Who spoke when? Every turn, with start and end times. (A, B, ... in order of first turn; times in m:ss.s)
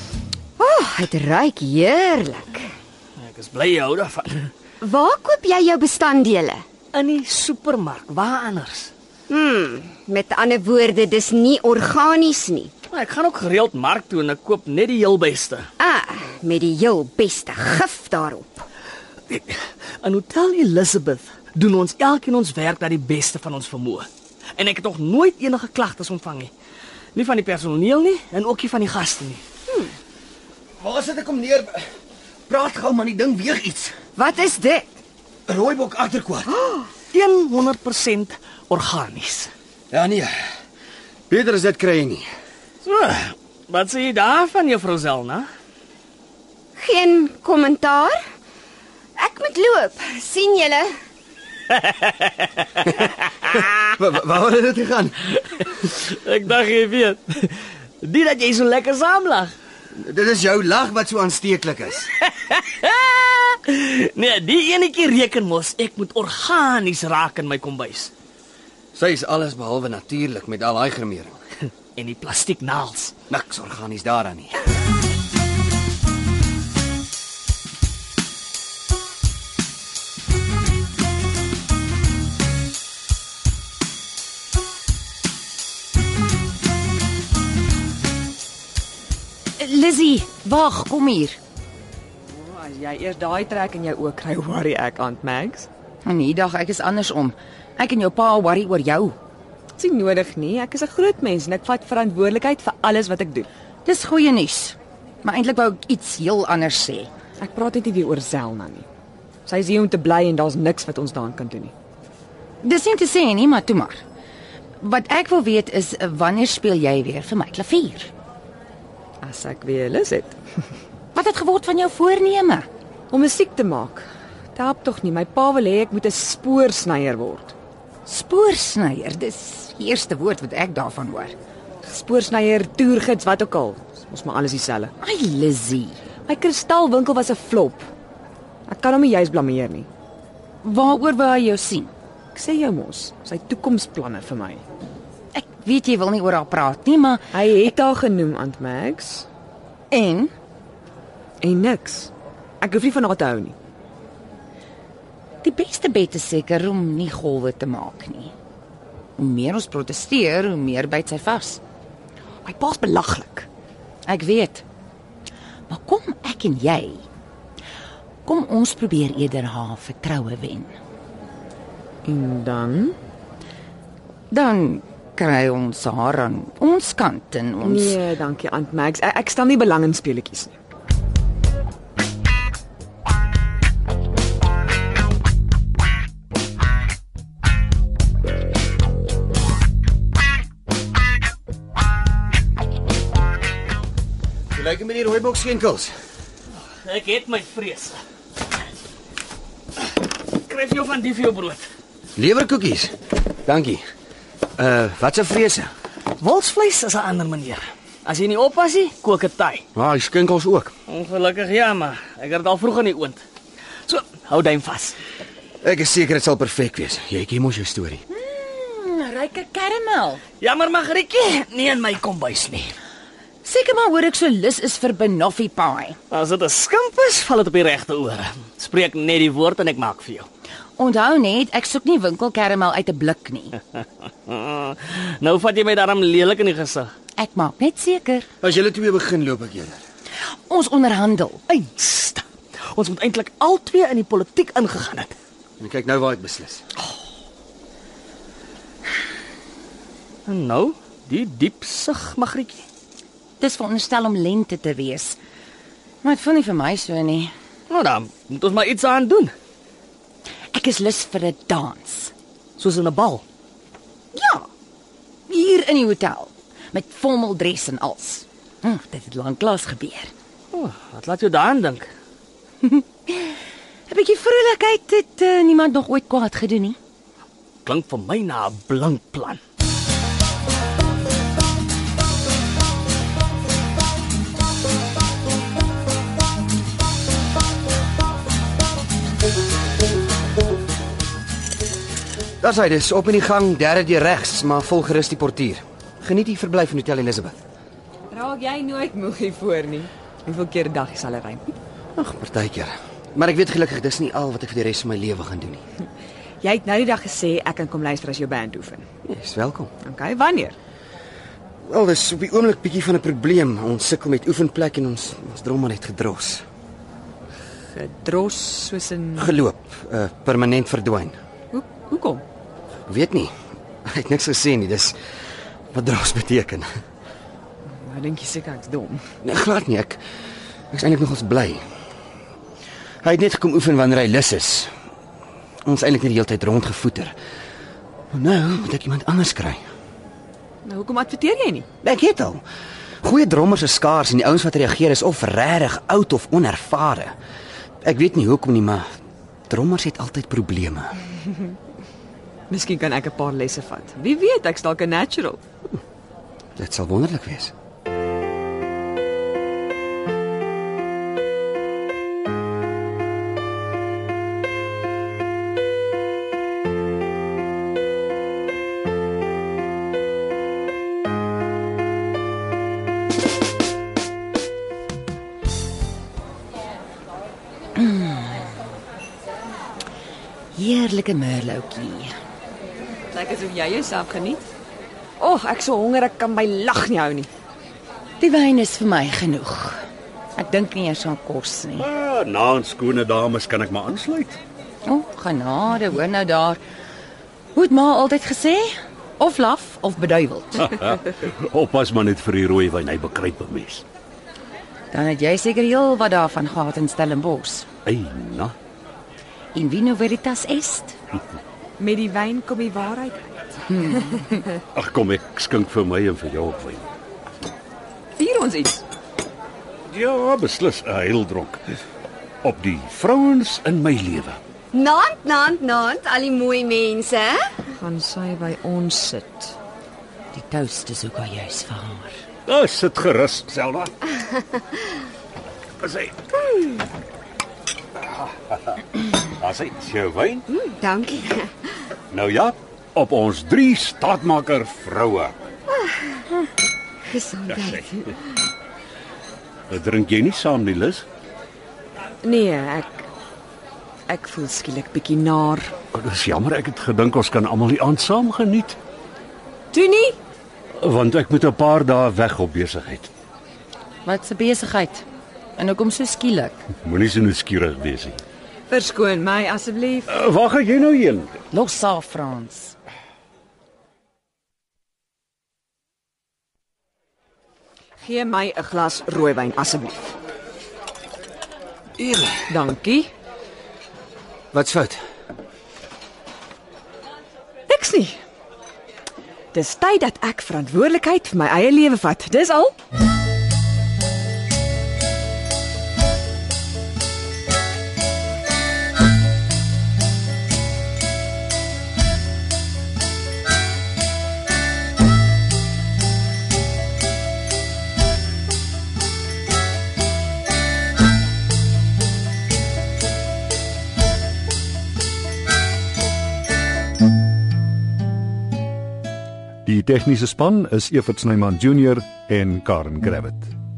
0:00.6-0:02.7 A
0:03.2-0:04.5 B
0:04.8-0:06.6 A
0:06.9-0:08.9 B
0:09.3-0:12.7 A
0:12.9-0:15.7 B
0:15.8-0:18.6 A
0:19.3-0:26.5 B
0:27.2-0:29.4 B
0:30.8-0:31.9 C
0:32.5-0:34.0 C
0:34.2-0:35.0 A
0:35.5-0:36.6 C
0:36.6-0:36.9 A
0:37.1-0:39.5 B
0:39.9-0:40.4 C
0:41.3-0:42.3 C
0:42.8-0:45.5 B
0:46.8-0:48.2 A
0:49.2-0:50.9 A
0:53.5-0:55.4 C
0:55.9-0:59.5 B
1:00.0-1:02.1 C
1:02.4-1:08.1 B
1:08.9-1:11.4 C
1:12.0-1:13.1 B
1:13.3-1:14.6 C
1:29.6-1:31.4 D
1:32.3-1:35.7 E
1:36.0-1:39.2 D
1:39.8-1:43.5 E
1:43.8-1:47.1 D
1:47.4-1:48.9 E
1:49.5-1:51.7 E
1:52.6-1:54.0 D
1:54.8-1:58.1 D
1:59.2-2:00.4 E
2:01.2-2:02.7 D
2:03.1-2:07.5 E
2:08.1-2:11.3 D
2:11.8-2:14.9 E
2:15.0-2:16.0 D
2:16.3-2:17.9 E
2:18.7-2:19.9 E
2:20.6-2:21.9 D
2:22.3-2:24.6 E
2:25.3-2:27.3 D
2:27.3-2:29.3 E
2:29.9-2:30.3 D
2:31.4-2:33.6 E
2:35.4-2:38.3 D
2:39.2-2:41.6 D
2:42.4-2:43.5 E
2:44.1-2:44.6 D
2:45.7-2:47.0 D
2:48.2-2:50.7 D
2:52.0-2:53.0 E
2:54.3-2:58.0 D
2:57.6-3:00.6 E
3:14.5-3:16.0 C
3:16.8-3:18.0 B
3:20.4-3:21.7 B
3:22.2-3:22.9 C
3:23.5-3:23.8 C
3:24.6-3:25.7 C
3:26.2-3:29.6 B
3:29.8-3:30.7 C
3:30.9-3:33.2 B
3:33.9-3:35.0 B
3:35.6-3:38.0 C
3:38.1-3:40.2 D
3:40.4-3:42.7 B
3:43.4-3:46.0 D
3:46.1-3:50.3 B
3:50.8-3:53.6 D
3:54.3-3:56.9 B
3:57.2-3:58.3 D
3:58.4-3:59.8 C
4:00.5-4:01.4 D
4:01.5-4:05.2 B
4:05.6-4:06.6 C
4:10.3-4:12.6 B
4:13.4-4:15.2 D
4:16.0-4:17.3 D
4:17.7-4:19.3 B
4:20.5-4:22.1 D
4:22.6-4:23.2 B
4:24.1-4:24.5 D
4:25.3-4:30.1 D
4:30.5-4:31.9 B
4:32.6-4:33.3 D
4:33.9-4:36.8 D
4:37.6-4:39.4 B
4:52.4-4:57.4 C
4:58.1-5:01.5 E
5:02.0-5:05.6 C
5:06.4-5:08.8 E
5:09.1-5:09.7 C
5:09.8-5:10.6 E
5:11.6-5:16.4 C
5:17.7-5:19.4 E
5:19.2-5:21.2 C
5:21.5-5:22.2 E
5:22.9-5:23.3 C
5:23.8-5:25.0 C
5:25.7-5:26.7 C
5:27.7-5:29.0 E
5:29.2-5:30.0 C
5:30.7-5:31.6 C
5:33.0-5:34.7 C
5:35.6-5:37.2 C
5:38.1-5:39.6 C
5:40.6-5:41.7 E
5:41.8-5:42.4 C
5:43.0-5:47.2 C
5:47.8-5:48.9 C
5:49.5-5:50.9 C
5:52.5-5:55.4 E
5:56.6-5:57.5 C
6:17.8-6:18.5 D
6:20.6-6:22.1 D
6:23.1-6:24.4 E
6:25.2-6:27.3 E
6:28.2-6:29.8 D
6:30.4-6:31.9 D
6:31.8-6:34.4 F
6:34.9-6:36.6 D
6:37.6-6:40.8 D
6:40.8-6:43.8 F
6:44.9-6:47.7 D
6:47.8-6:48.5 F
6:49.5-6:51.0 D
6:51.8-6:54.4 E
6:53.9-6:54.2 D
6:54.7-6:56.9 F
6:58.2-6:58.8 E
6:59.9-7:01.6 F
7:02.4-7:04.4 F
7:04.7-7:07.5 A
7:07.8-7:09.6 E
7:10.3-7:12.1 D
7:12.5-7:14.1 F
7:15.8-7:16.2 F
7:19.4-7:20.5 F
7:20.5-7:21.6 A
7:22.1-7:25.4 F
7:25.7-7:26.3 A
7:27.0-7:28.2 A
7:29.7-7:31.0 F
7:32.2-7:33.1 E
7:34.1-7:35.7 E
7:35.9-7:38.8 F
7:39.7-7:40.2 E
7:40.8-7:43.1 F
7:44.1-7:45.0 D
7:45.6-7:46.6 D
7:46.8-7:48.2 F
7:48.7-7:50.2 E
7:50.1-7:51.4 F
7:51.5-7:52.8 D
7:58.0-8:00.1 E
8:02.0-8:02.4 C
8:02.4-8:03.1 E
8:04.5-8:05.0 C
8:07.7-8:08.2 E
8:09.5-8:12.7 E
8:39.7-8:43.6 G